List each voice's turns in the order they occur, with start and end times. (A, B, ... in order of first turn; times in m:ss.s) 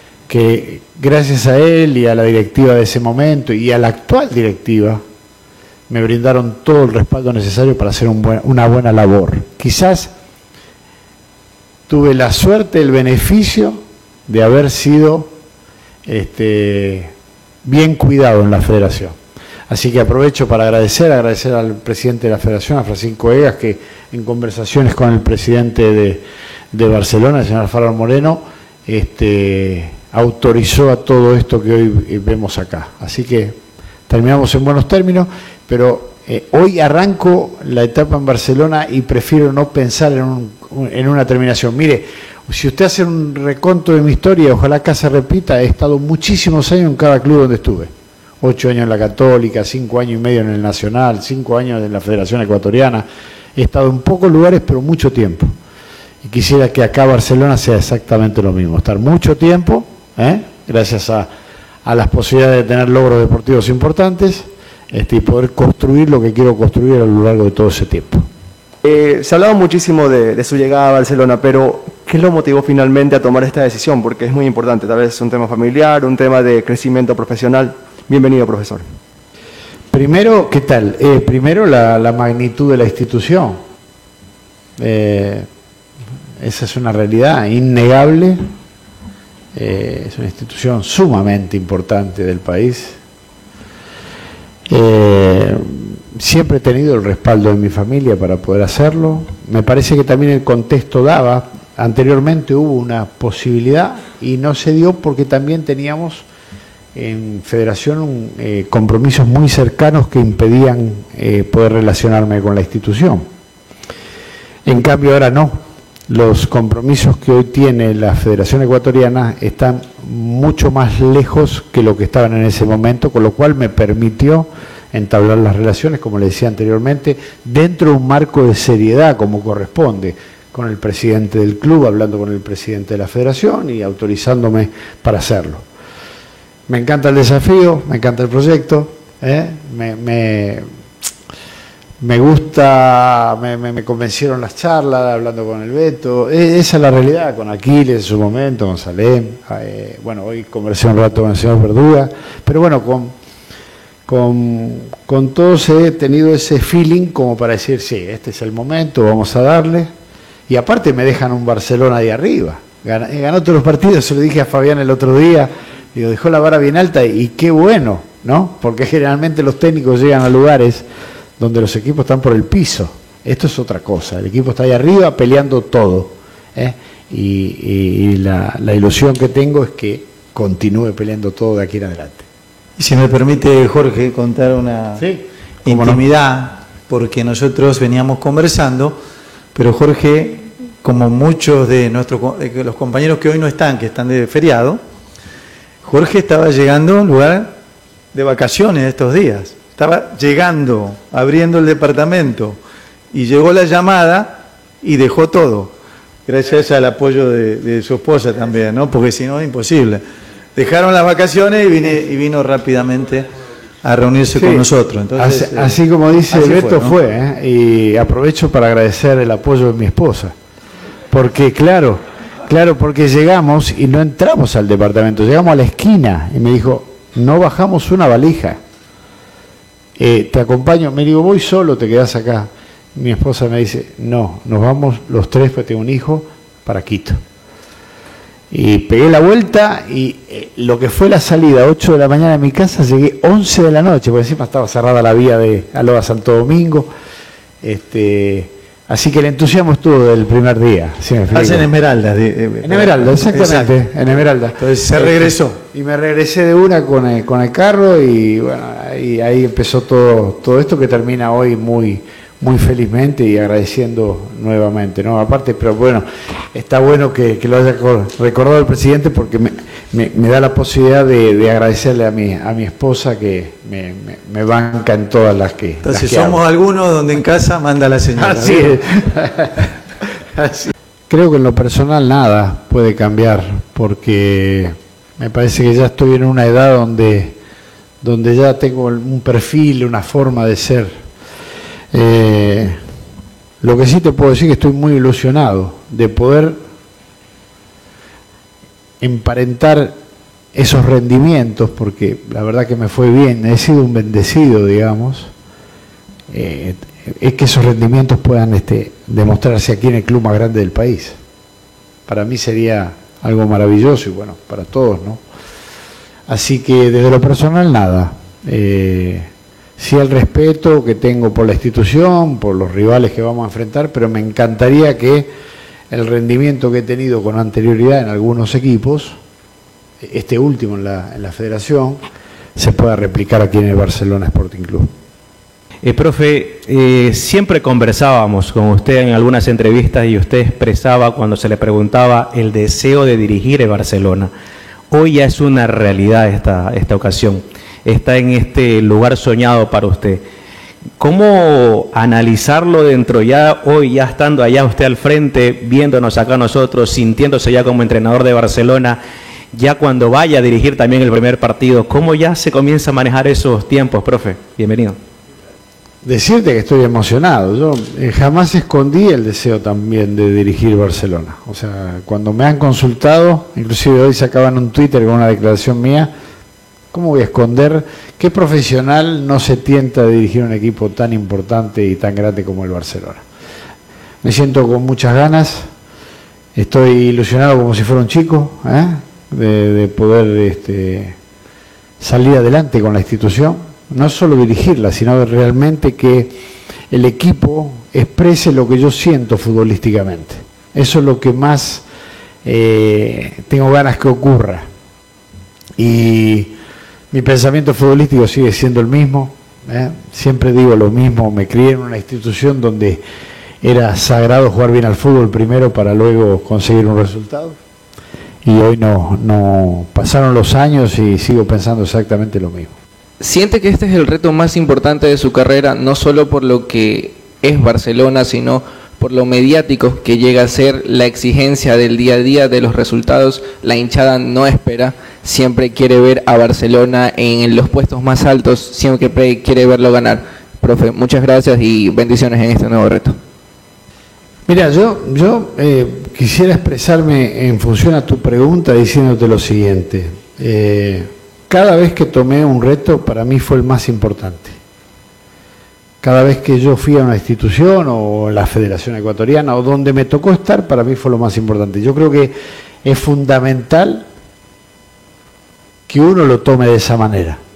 0:00.3-0:05.0 A
0:05.9-0:10.1 A
0:11.9-0:15.3 A
0:16.0-0:17.1 A
0:17.6-0:19.2 A
0:19.7-0:55.5 A
0:56.2-1:01.3 A
1:01.8-1:08.3 A
1:08.8-1:18.9 B
1:19.9-1:23.6 A
1:24.8-1:25.5 A
1:26.4-1:28.4 A
1:29.5-1:33.0 A
1:34.7-1:46.3 A
1:47.0-1:53.3 A
1:54.6-2:15.6 A
2:16.7-2:20.7 A
2:22.0-2:33.2 A
2:34.1-2:39.9 A
2:40.5-2:50.9 A
2:51.4-3:02.3 A
3:02.8-3:05.0 C
3:05.0-3:06.0 A
3:05.6-3:09.0 C
3:09.6-3:14.8 C
3:15.8-3:17.5 C
3:18.1-3:22.6 C
3:23.1-3:25.7 C
3:26.3-3:30.0 C
3:30.6-3:33.3 C
3:33.8-3:35.8 C
3:34.4-3:40.4 A
3:36.3-3:37.0 C
3:41.1-3:48.6 A
3:50.0-3:57.2 A
3:58.5-4:06.9 A
4:07.6-4:11.7 A
4:11.3-4:13.8 C
4:12.6-4:36.4 A
4:14.6-4:15.6 C
4:35.8-4:38.8 C
4:38.2-4:39.6 A
4:41.1-4:47.4 A
4:48.0-4:51.0 A
4:51.9-4:52.8 A
4:53.6-4:56.6 A
4:59.0-5:00.0 A
5:00.5-5:05.3 A
5:06.3-5:11.2 A
5:12.1-5:15.2 A
5:16.3-5:25.3 A
5:25.9-5:29.2 A
5:30.0-5:32.0 A
5:32.6-5:34.9 A
5:35.8-5:44.3 D
5:44.9-5:50.2 D
5:51.0-5:59.0 D
5:59.5-6:05.0 D
6:06.0-6:16.1 A
6:16.9-6:23.2 A
6:24.2-6:25.7 A
6:26.6-6:31.2 A
6:32.0-6:41.8 A
6:42.4-6:44.7 A
6:45.8-6:46.6 A
6:47.1-6:53.0 A
6:53.6-6:57.6 A
6:58.4-7:02.8 A
7:03.2-7:23.2 E
7:24.5-7:34.6 A
7:36.0-7:44.1 A
7:45.9-7:47.4 A